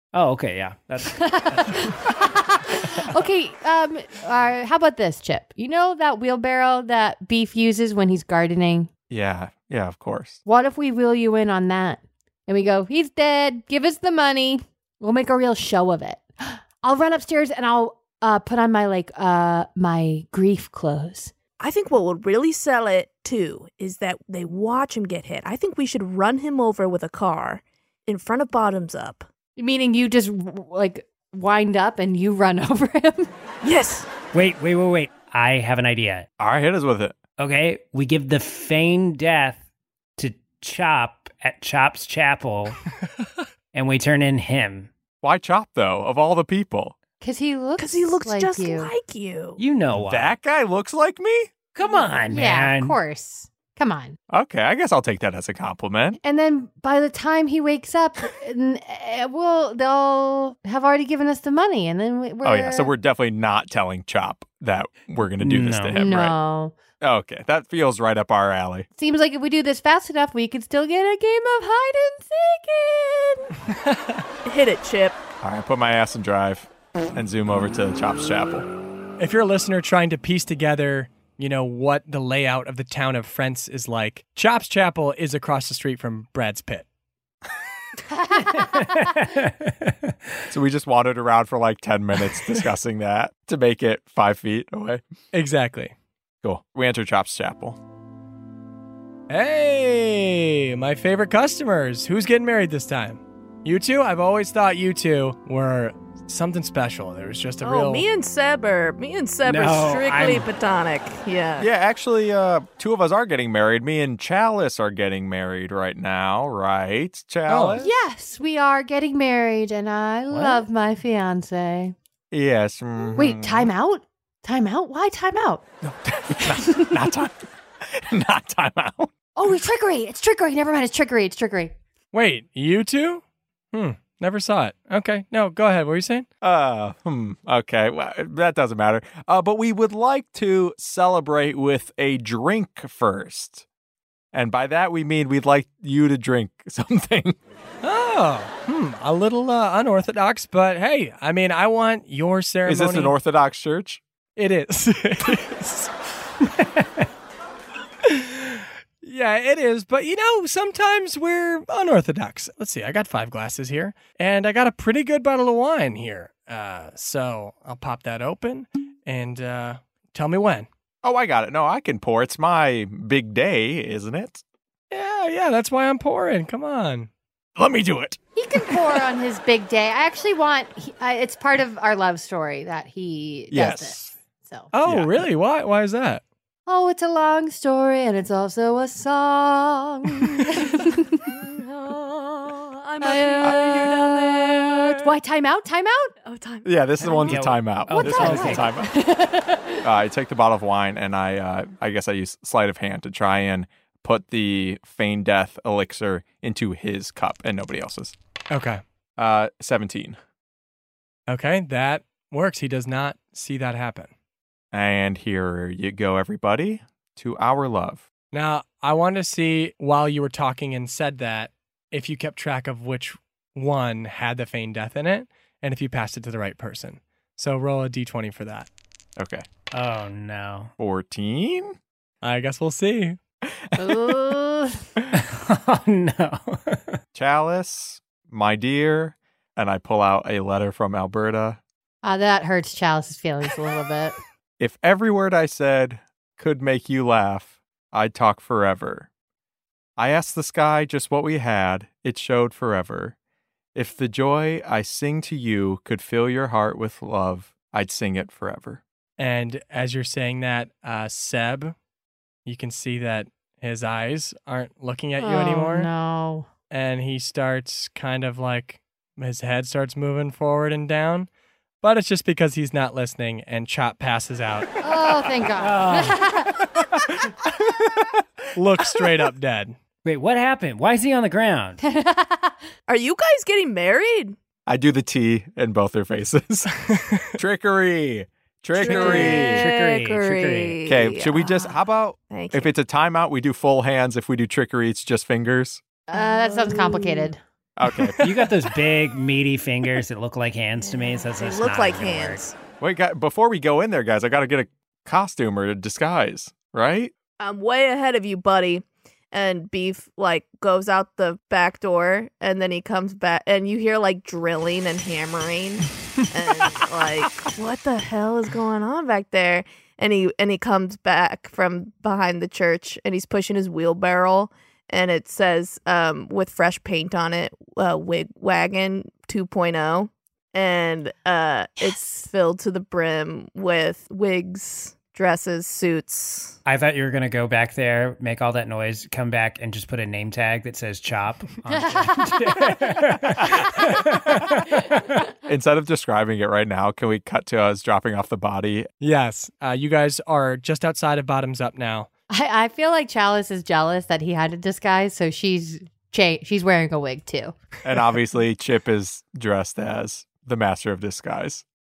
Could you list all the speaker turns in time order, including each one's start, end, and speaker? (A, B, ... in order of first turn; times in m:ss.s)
0:00.1-0:02.0 A
0:01.2-0:08.9 B
0:09.1-0:10.4 C
0:10.4-0:21.3 B
0:21.6-0:29.3 D
0:29.6-0:33.3 B
0:33.6-0:34.1 D
0:34.3-0:36.3 A
0:36.4-0:37.2 C
0:37.4-0:39.6 A
0:40.2-0:42.8 A
0:43.7-0:44.9 A
0:45.2-0:46.9 C
0:47.2-0:48.9 B
0:47.8-0:49.6 D
0:49.6-0:50.3 A
0:49.9-0:51.5 C
0:51.7-0:53.0 A
0:52.3-0:54.2 B
0:54.3-0:56.2 C
0:56.2-1:02.9 B
1:02.4-1:06.4 C
1:05.4-1:06.0 A
1:05.9-1:06.7 B
1:07.0-1:08.9 C
1:09.0-1:13.5 B
1:14.4-1:15.2 D
1:15.4-1:18.7 C
1:19.2-1:26.8 E
1:28.1-1:28.6 B
1:28.3-1:30.2 A
1:30.5-1:35.0 C
1:35.3-1:35.9 E
1:36.4-1:37.8 C
1:39.3-1:48.0 E
1:47.6-1:51.7 D
1:49.4-1:50.5 A
1:51.6-1:57.9 C
1:57.5-1:57.8 E
1:57.8-2:01.9 B
2:00.3-2:00.6 A
2:02.3-2:03.7 C
2:03.2-2:05.6 B
2:05.9-2:09.1 C
2:06.6-2:06.9 B
2:09.3-2:11.7 B
2:12.1-2:13.2 E
2:13.7-2:16.2 E
2:16.4-2:23.6 C
2:24.3-2:27.4 C
2:27.8-2:33.1 E
2:32.6-2:34.0 C
2:34.4-2:35.9 E
2:38.1-2:50.7 E
2:51.0-2:54.4 C
2:54.9-2:57.1 E
2:57.6-2:58.2 C
2:58.4-3:04.7 B
3:03.5-3:04.2 C
3:04.7-3:06.2 E
3:04.8-3:05.2 C
3:06.7-3:11.2 B
3:11.3-3:15.1 D
3:13.0-3:16.1 B
3:16.2-3:17.4 D
3:16.6-3:18.9 C
3:17.0-3:18.7 A
3:17.9-3:19.8 B
3:19.8-3:28.1 C
3:28.5-3:28.8 E
3:29.2-3:30.2 C
3:31.3-3:34.1 E
3:34.7-3:38.1 C
3:38.3-3:48.7 E
3:49.2-3:49.4 C
3:49.7-3:50.7 A
3:50.8-3:51.8 C
3:52.2-3:53.2 E
3:53.7-3:54.1 C
3:53.8-3:54.8 B
3:55.1-3:57.0 A
3:57.1-4:01.6 C
4:02.0-4:04.2 B
4:04.6-4:09.1 C
4:10.0-4:13.1 C
4:13.7-4:18.8 C
4:19.2-4:21.7 E
4:22.4-4:25.9 E
4:25.2-4:26.5 B
4:26.7-4:31.3 E
4:31.8-4:34.7 E
4:34.8-4:36.6 B
4:35.6-4:36.2 A
4:37.6-4:38.2 C
4:38.6-4:39.8 E
4:40.0-4:41.8 A
4:41.8-4:42.5 B
4:42.9-4:44.4 D
4:44.7-4:49.6 C
4:48.8-4:51.7 D
4:48.8-4:50.8 A
4:50.8-4:55.8 C
4:52.3-4:52.7 D
4:56.1-4:57.4 B
4:56.1-4:57.3 D
4:57.8-4:58.2 C
4:58.2-5:02.4 A
5:00.8-5:02.5 D
5:02.8-5:07.1 C
5:07.4-5:36.6 D
5:36.6-5:45.2 A
5:41.7-5:42.8 B
5:45.4-5:48.9 C
5:49.0-5:52.1 E
5:52.3-5:57.6 B
5:57.8-6:01.6 C